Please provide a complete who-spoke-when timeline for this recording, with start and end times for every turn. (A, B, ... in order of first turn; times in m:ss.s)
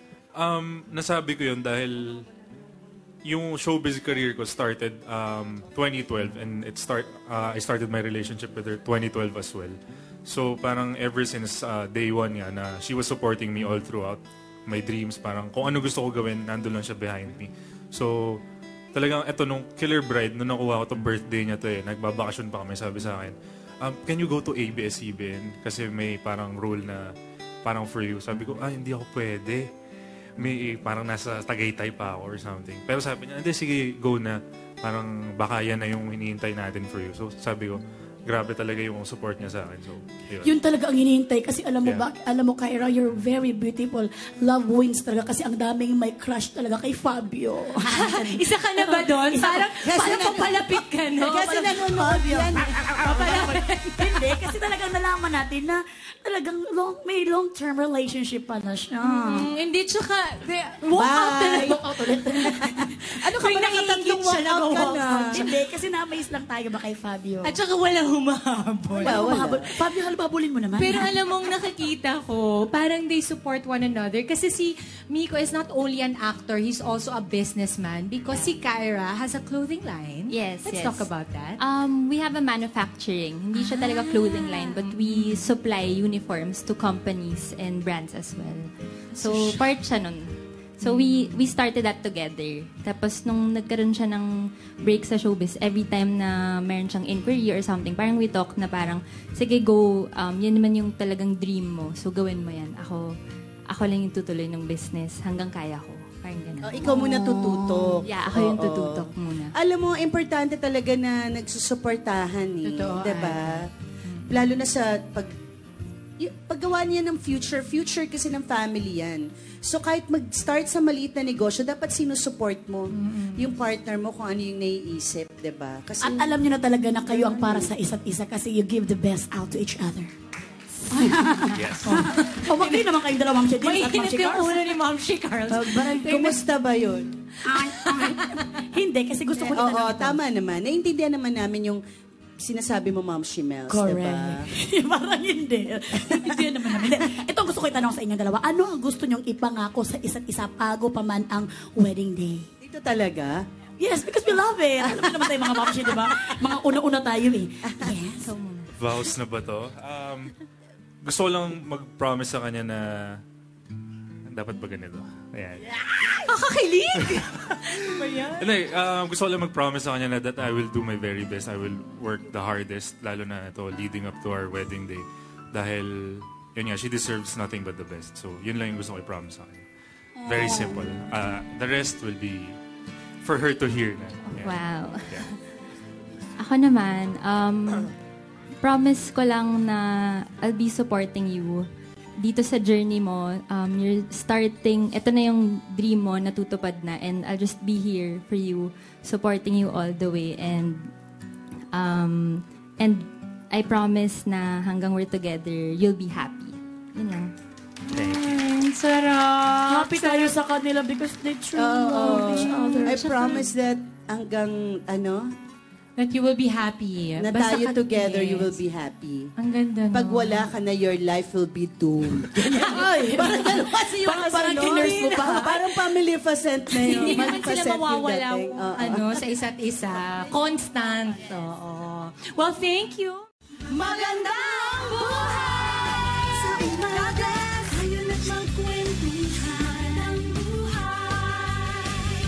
0:00.3-0:02.2 A
0:03.2-0:18.4 A
0:18.9-0:27.1 A
0:27.6-0:29.6 A
0:30.4-0:40.5 A
0:40.4-0:50.4 B
0:47.9-0:51.8 C
0:49.8-0:53.5 D
0:51.3-0:59.5 B
0:53.2-0:54.3 C
0:59.0-1:01.5 C
1:01.0-1:01.8 D
1:01.0-1:07.6 B
1:03.2-1:05.5 D
1:03.9-1:04.3 C
1:07.4-1:09.2 C
1:09.0-1:11.1 B
1:09.0-1:09.7 D
1:10.8-1:21.6 C
1:20.3-1:34.3 E
1:23.6-1:25.5 C
1:29.1-1:29.7 C
1:30.8-1:31.4 C
1:34.8-1:43.1 E
1:43.7-1:46.9 E
1:46.6-1:53.6 D
1:46.8-1:48.0 B
1:48.0-1:49.5 E
1:52.6-1:54.3 C
1:54.3-1:55.3 D
1:56.2-2:06.4 D
2:02.9-2:03.5 C
2:06.0-2:10.1 B
2:07.0-2:07.7 D
2:10.9-2:14.7 B
2:11.5-2:11.9 A
2:11.8-2:12.9 C
2:13.5-2:16.4 C
2:15.5-2:17.1 D
2:17.4-2:20.2 B
2:17.5-2:18.4 C
2:19.5-2:21.8 D
2:22.4-2:24.4 D
2:23.7-2:32.5 B
2:32.6-2:33.4 D
2:33.8-2:38.3 B
2:34.9-2:35.3 D
2:38.2-2:38.7 E
2:38.8-2:40.3 A
2:41.0-2:43.2 A
2:44.2-2:46.4 A
2:46.2-2:48.5 C
2:46.9-2:59.6 A
3:00.2-3:00.8 B
3:00.2-3:02.6 A
3:03.2-3:05.3 A
3:04.4-3:05.4 E
3:06.4-3:07.9 E
3:08.6-3:11.6 E
3:12.2-3:20.9 E
3:21.7-3:27.3 E
3:27.9-3:30.3 C
3:27.9-3:28.4 A
3:29.7-3:33.3 B
3:31.6-3:35.3 D
3:32.7-3:33.5 C
3:36.0-3:38.6 C
3:37.2-3:39.3 D
3:39.4-3:40.5 C
3:39.9-3:49.2 D
3:42.3-3:45.8 B
3:42.6-3:43.5 C
3:44.6-3:45.3 C
3:46.8-3:53.3 C
3:53.7-4:02.1 D
3:56.5-3:57.2 B